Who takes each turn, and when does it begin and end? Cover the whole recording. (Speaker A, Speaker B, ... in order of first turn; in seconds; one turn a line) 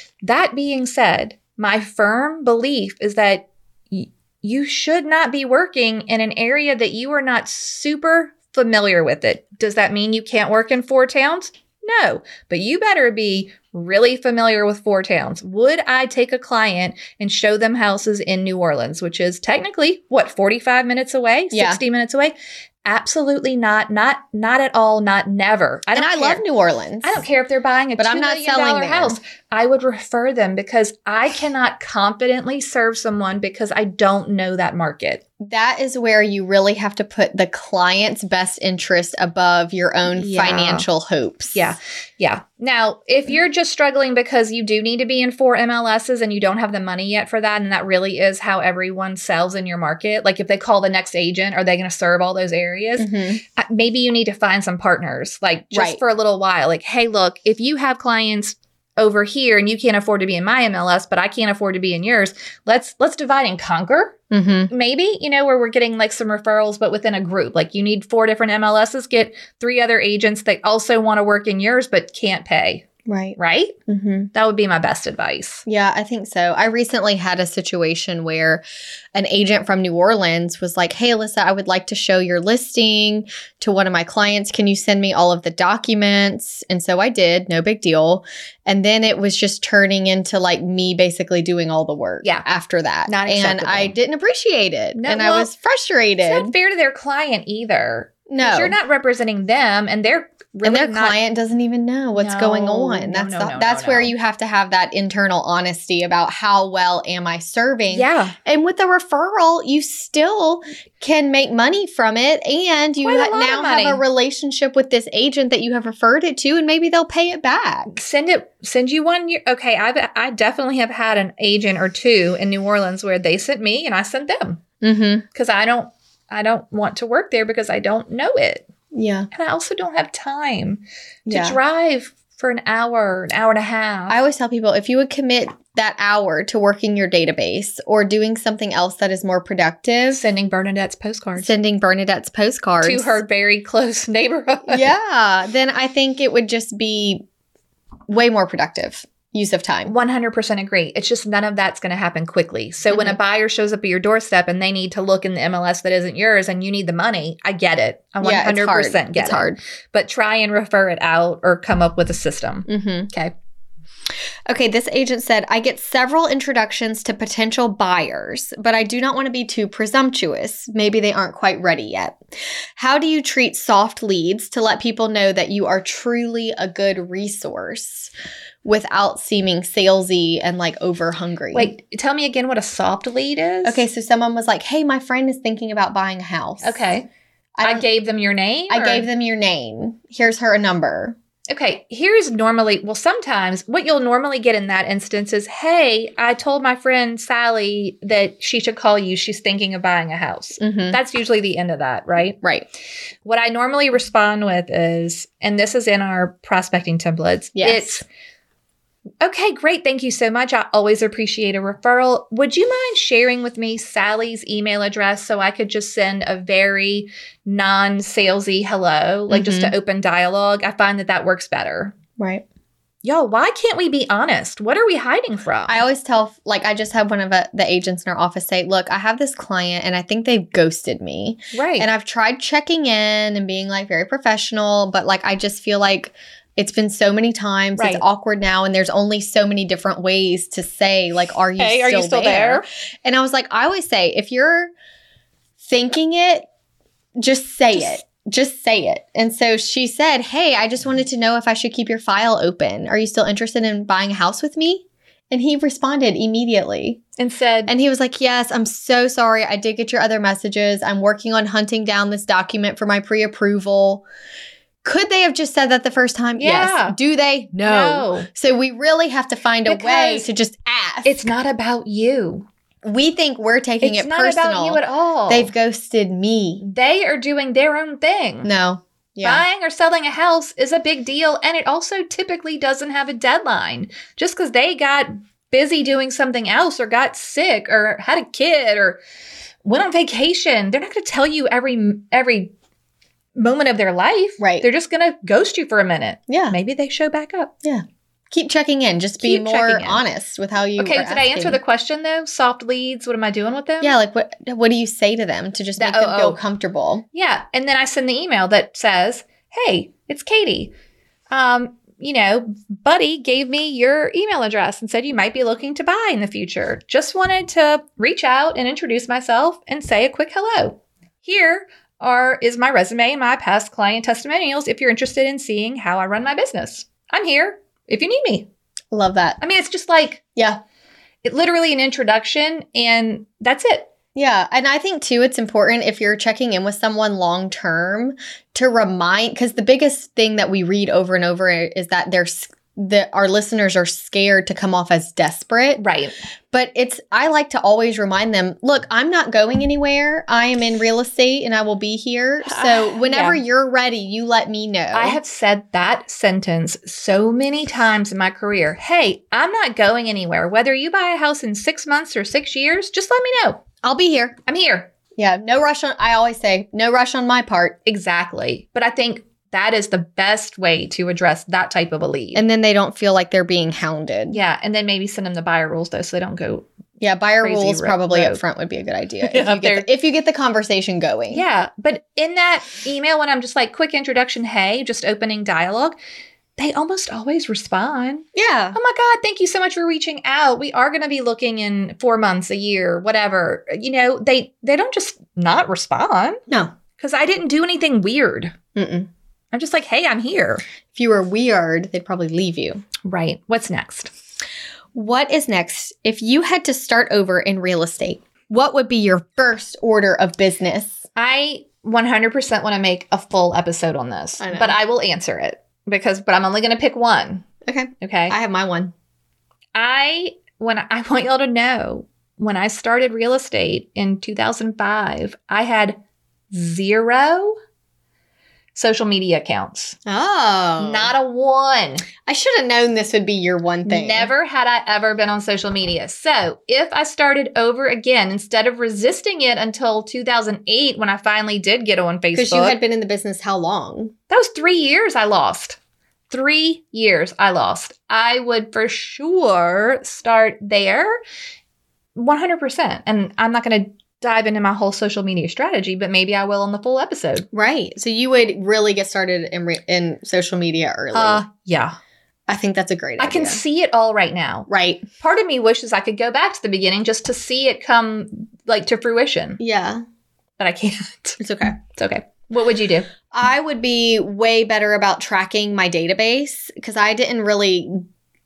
Speaker A: 0.2-26.4
Speaker B: 21.5-21.8
Speaker B: 25.9-27.2
Speaker A: 27.0-35.2
Speaker B: 28.0-29.2
Speaker B: 35.4-41.7
Speaker A: 40.1-40.9
Speaker A: 41.5-64.2
Speaker B: 53.0-53.4
Speaker B: 55.7-56.0
Speaker B: 64.3-64.7
Speaker A: 64.7-73.8
Speaker B: 73.0-73.4
Speaker B: 73.9-74.3
Speaker A: 74.3-75.6
Speaker B: 75.7-96.5
Speaker A: 93.1-94.0
Speaker A: 94.9-95.5
Speaker A: 96.2-101.2
Speaker B: 98.3-98.8
Speaker B: 100.6-117.9
Speaker A: 102.1-104.1
Speaker A: 107.9-108.3
Speaker A: 113.0-114.0
Speaker A: 117.9-124.6
Speaker B: 124.8-125.2
Speaker A: 125.3-128.7
Speaker B: 128.9-129.3
Speaker A: 129.3-134.2
Speaker B: 131.2-131.6
Speaker B: 134.1-140.2
Speaker A: 140.1-141.5
Speaker B: 141.4-143.2
Speaker A: 142.8-144.9
Speaker B: 144.7-147.2
Speaker B: 148.1-149.9
Speaker A: 149.9-162.7
Speaker B: 152.9-153.2
Speaker B: 158.2-159.6
Speaker B: 162.7-163.3
Speaker B: 164.5-172.2
Speaker B: 172.8-178.1
Speaker B: 178.6-181.7
Speaker A: 181.5-183.8
Speaker B: 183.6-186.8
Speaker A: 186.6-187.1
Speaker B: 187.6-187.8
Speaker A: 187.6-189.1
Speaker B: 188.7-191.2
Speaker A: 191.5-202.4
Speaker B: 200.6-201.0
Speaker A: 203.2-208.0
Speaker B: 207.6-208.0
Speaker A: 209.2-221.9
Speaker B: 219.3-219.7
Speaker B: 222.2-222.4
Speaker A: 223.0-225.8
Speaker B: 225.7-244.7
Speaker A: 231.5-231.9
Speaker A: 237.8-238.0
Speaker A: 241.6-242.6
Speaker B: 245.6-246.5
Speaker B: 247.2-257.0
Speaker A: 257.2-257.7
Speaker B: 257.7-264.0
Speaker B: 264.8-271.3
Speaker A: 266.4-267.0
Speaker A: 267.6-268.3
Speaker A: 269.6-270.3
Speaker A: 271.0-272.5
Speaker B: 272.8-276.6
Speaker A: 273.8-275.5
Speaker A: 276.6-278.5
Speaker B: 278.4-279.4
Speaker A: 279.2-289.0
Speaker A: 289.6-292.5
Speaker A: 293.4-297.5
Speaker B: 294.4-294.7
Speaker B: 296.3-296.6
Speaker B: 297.6-301.6
Speaker A: 299.2-300.0
Speaker A: 300.8-303.9
Speaker B: 303.8-307.0
Speaker A: 305.8-306.4
Speaker A: 307.1-310.7
Speaker A: 311.3-328.5
Speaker B: 328.9-329.4
Speaker A: 329.4-330.2
Speaker B: 330.4-330.6
Speaker A: 331.2-333.9
Speaker B: 334.1-345.8
Speaker A: 345.8-346.1
Speaker B: 346.5-355.2
Speaker A: 352.4-353.4
Speaker A: 354.9-363.6
Speaker B: 363.8-364.4
Speaker A: 364.5-364.9
Speaker B: 365.2-367.8
Speaker A: 367.8-372.4
Speaker B: 372.3-374.4
Speaker A: 374.3-376.6
Speaker B: 377.0-381.4
Speaker A: 377.4-378.4
Speaker A: 379.2-379.9
Speaker A: 381.3-386.0
Speaker A: 386.6-396.4
Speaker B: 388.3-388.8
Speaker A: 397.0-398.6
Speaker B: 398.7-399.1
Speaker A: 399.5-400.6
Speaker B: 400.9-402.8
Speaker A: 403.0-404.1
Speaker B: 404.9-411.0
Speaker A: 411.1-417.4
Speaker B: 414.4-414.8
Speaker B: 417.6-418.9
Speaker A: 418.0-418.4
Speaker A: 419.7-426.0
Speaker A: 426.5-427.6
Speaker A: 428.7-429.9
Speaker B: 430.1-431.1
Speaker A: 430.8-432.1
Speaker B: 432.2-434.3
Speaker A: 433.9-442.8
Speaker B: 442.3-444.1
Speaker A: 444.3-445.8
Speaker A: 446.3-451.2
Speaker A: 452.1-457.4
Speaker B: 457.5-461.4
Speaker A: 461.1-461.9
Speaker B: 462.5-463.6
Speaker A: 463.2-469.6
Speaker B: 464.7-465.1
Speaker B: 469.6-470.0
Speaker A: 470.6-473.1
Speaker B: 471.4-471.8
Speaker B: 473.3-478.0